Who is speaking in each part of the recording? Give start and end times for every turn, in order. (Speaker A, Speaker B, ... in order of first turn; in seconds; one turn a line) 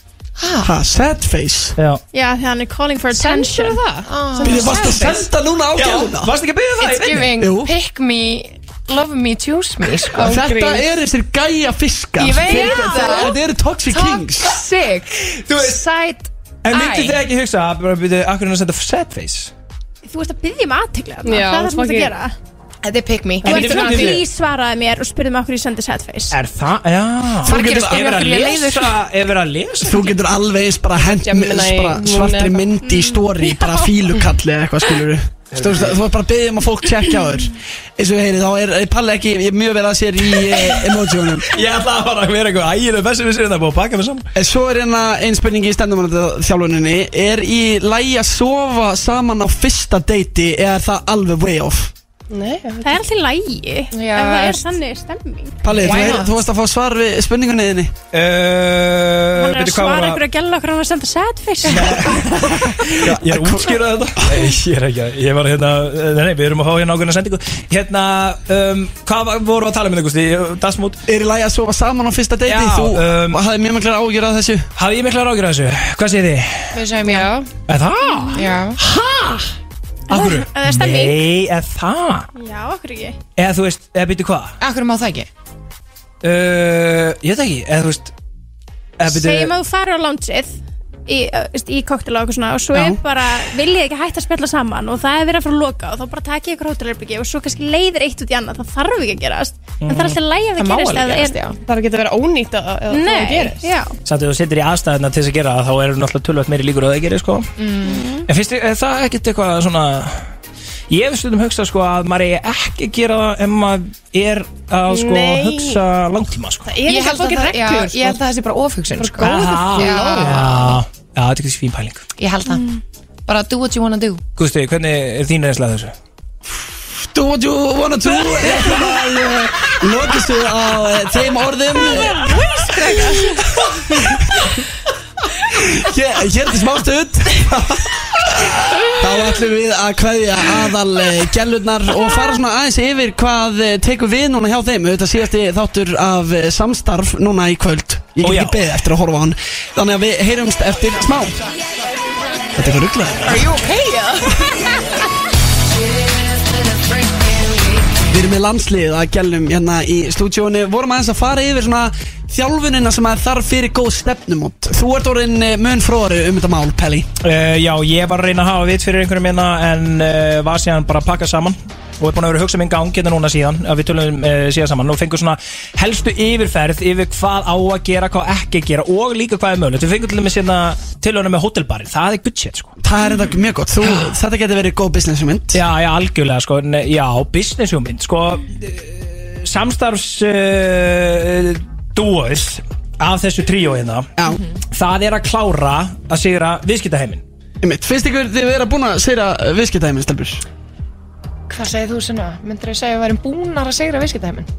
Speaker A: 0.4-0.7
Speaker B: 0.6-1.7
Speaker C: 2.1-3.8
Speaker D: 3.1-5.2
Speaker A: 4.0-4.8
Speaker B: 4.4-6.3
Speaker E: 5.7-7.4
Speaker A: 6.8-10.3
Speaker B: 7.4-7.7
Speaker D: 10.2-10.9
Speaker B: 10.2-14.5
Speaker A: 12.2-13.4
Speaker D: 12.7-13.1
Speaker A: 13.9-17.2
Speaker E: 15.3-15.8
Speaker E: 16.6-19.5
Speaker C: 20.0-22.3
Speaker D: 21.2-22.1
Speaker A: 22.8-23.9
Speaker E: 23.4-24.2
Speaker C: 23.5-26.4
Speaker D: 23.5-24.2
Speaker E: 26.3-30.2
Speaker A: 27.4-29.0
Speaker B: 27.4-28.0
Speaker B: 29.8-41.5
Speaker D: 31.1-32.7
Speaker C: 32.9-33.2
Speaker E: 35.5-35.9
Speaker E: 41.5-44.3
Speaker B: 44.3-51.9
Speaker D: 52.3-53.0
Speaker C: 52.8-55.6
Speaker A: 53.9-54.6
Speaker B: 55.6-57.9
Speaker A: 55.7-56.3
Speaker E: 58.1-60.2
Speaker C: 59.4-62.3
Speaker A: 61.7-62.0
Speaker E: 61.7-71.0
Speaker B: 62.8-64.2
Speaker B: 71.1-74.7
Speaker E: 72.5-73.4
Speaker E: 74.8-76.7
Speaker A: 76.7-77.3
Speaker D: 77.1-77.5
Speaker E: 77.7-79.5
Speaker C: 78.0-78.4
Speaker A: 78.3-78.8
Speaker E: 80.1-82.3
Speaker C: 80.1-81.3
Speaker C: 82.3-83.2
Speaker E: 83.4-84.5
Speaker A: 84.6-85.3
Speaker E: 86.2-88.1
Speaker E: 89.0-89.5
Speaker C: 89.0-101.4
Speaker E: 99.8-100.2
Speaker A: 100.5-101.6
Speaker D: 101.7-103.7
Speaker C: 102.9-103.9
Speaker E: 104.0-107.5
Speaker A: 107.6-108.1
Speaker C: 107.8-108.2
Speaker E: 108.2-110.3
Speaker E: 110.9-116.7
Speaker D: 114.9-115.8
Speaker D: 116.7-118.2
Speaker A: 116.8-120.8
Speaker D: 119.0-120.3
Speaker E: 119.2-122.0
Speaker A: 122.2-122.7
Speaker A: 123.3-124.2
Speaker E: 124.4-125.9
Speaker B: 127.1-132.4
Speaker E: 128.5-128.9
Speaker C: 131.8-133.4
Speaker B: 133.7-134.6
Speaker B: 135.4-151.3
Speaker E: 138.4-138.8
Speaker E: 148.2-148.8
Speaker B: 152.6-153.5
Speaker A: 153.2-154.8
Speaker A: 156.3-157.8
Speaker B: 158.1-167.1
Speaker E: 167.2-182.7
Speaker B: 182.8-185.6
Speaker E: 183.8-184.1
Speaker E: 185.5-194.1
Speaker E: 194.7-197.2
Speaker B: 197.6-200.4
Speaker A: 201.5-204.5